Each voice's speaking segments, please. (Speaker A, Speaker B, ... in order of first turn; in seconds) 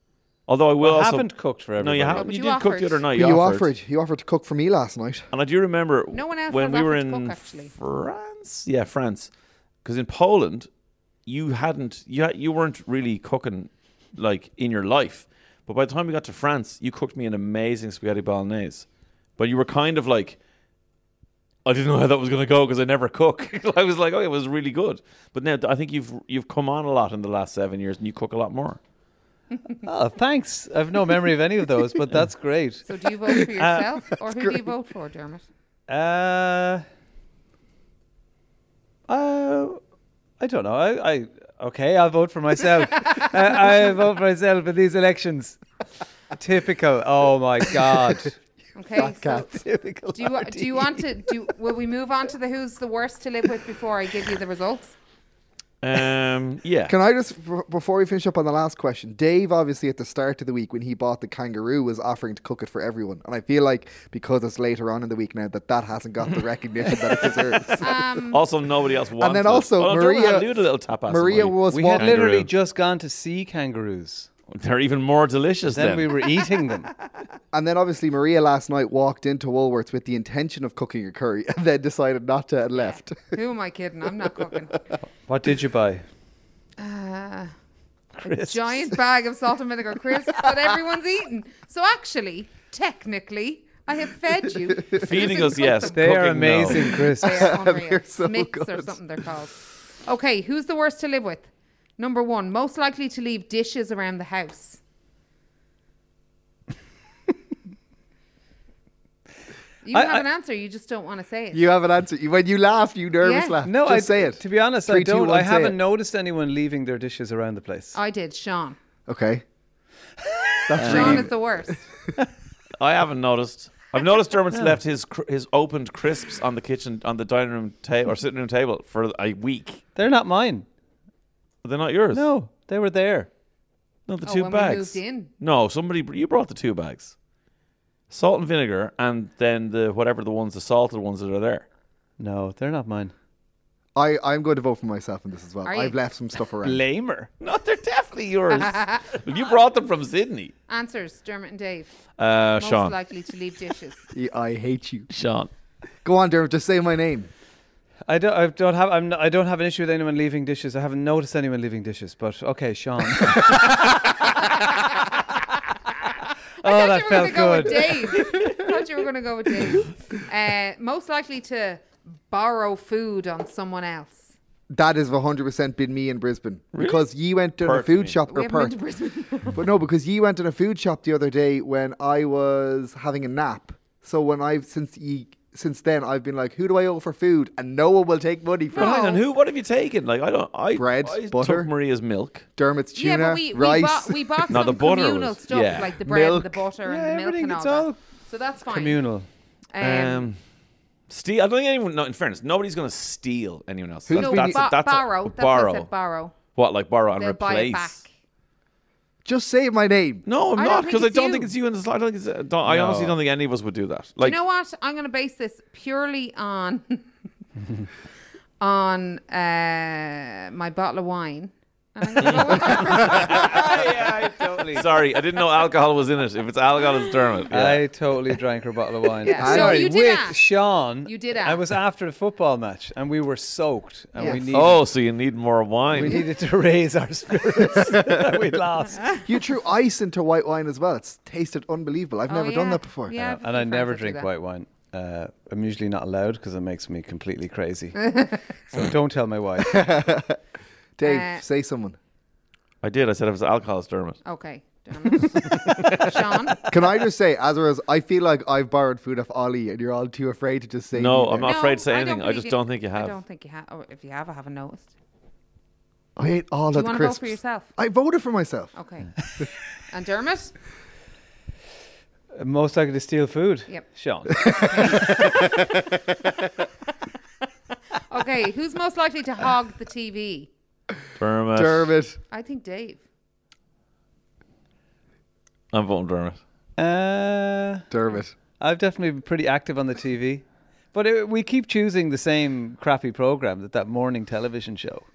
Speaker A: 0.5-3.7, 5.3-9.3, 9.8-10.7, 11.2-18.9, 19.4-20.4, 21.6-28.8, 55.8-56.9, 67.0-72.5, 74.5-76.2, 94.9-96.9, 122.8-129.8, 131.6-132.3, 134.1-137.1, 138.1-141.6, 147.4-150.5, 152.2-152.9, 155.1-155.5, 176.7-177.0, 177.6-178.2, 188.7-192.4, 194.5-196.6, 199.8-200.4, 201.1-205.9, 206.5-208.0, 210.3-214.4, 222.2-227.8, 234.5-236.2, 252.8-254.2, 255.8-256.1, 260.9-263.2, 281.2-281.9, 285.7-286.4
Speaker B: 0.8-2.3, 29.8-32.8, 33.5-33.9, 35.9-36.8, 39.1-39.8, 40.4-45.6, 46.4-48.3, 49.5-51.1, 71.7-74.3, 75.7-76.9, 85.2-86.0, 88.2-89.0, 95.9-97.5, 109.9-110.2, 113.6-118.0, 120.7-121.2, 129.9-130.7, 132.1-133.3, 142.2-143.1, 146.6-147.3, 158.1-163.8, 166.6-168.0, 196.8-198.0, 198.6-199.2, 212.7-213.2, 223.4-224.8, 227.5-234.8, 235.9-239.2, 243.4-248.1, 248.7-249.9, 272.3-275.1, 286.8-287.9, 288.6-295.0
Speaker C: 2.2-3.0, 6.1-7.7, 32.9-35.4, 48.8-49.6, 50.1-54.9, 67.8-68.4, 82.8-84.9, 86.8-87.5, 88.2-96.1, 96.8-104.8, 109.8-111.7, 113.2-113.6, 117.9-118.8, 120.8-121.8, 134.2-135.3, 145.7-145.9, 148.5-149.1, 150.7-151.9, 152.6-154.0, 166.6-174.3, 178.3-179.6, 188.7-189.2, 192.9-199.0, 199.7-200.3, 204.1-206.4, 207.2-208.1, 210.6-211.5, 214.2-217.1, 218.6-223.6, 229.2-230.4, 231.0-231.6, 242.3-244.3, 248.1-248.4, 251.0-251.4, 254.2-256.7, 261.4-264.9, 266.7-267.7, 268.8-269.1, 269.9-270.5, 274.4-275.6, 278.1-280.5, 282.3-283.0
Speaker D: 3.1-5.3, 49.0-49.6, 56.9-68.0, 69.2-72.2, 77.5-83.4, 94.7-95.3, 97.2-99.2, 111.5-115.8, 119.1-119.4, 120.7-121.3, 143.9-146.8, 154.1-155.1, 156.0-157.3, 174.7-178.8, 179.5-189.0, 190.7-191.7, 192.6-194.7, 204.1-204.6, 209.2-210.2, 229.4-229.9, 234.2-234.5, 237.7-238.3, 239.2-243.4, 249.6-250.4, 251.0-252.0, 256.7-261.6, 266.1-268.7, 274.4-275.7, 281.5-282.2, 287.9-288.3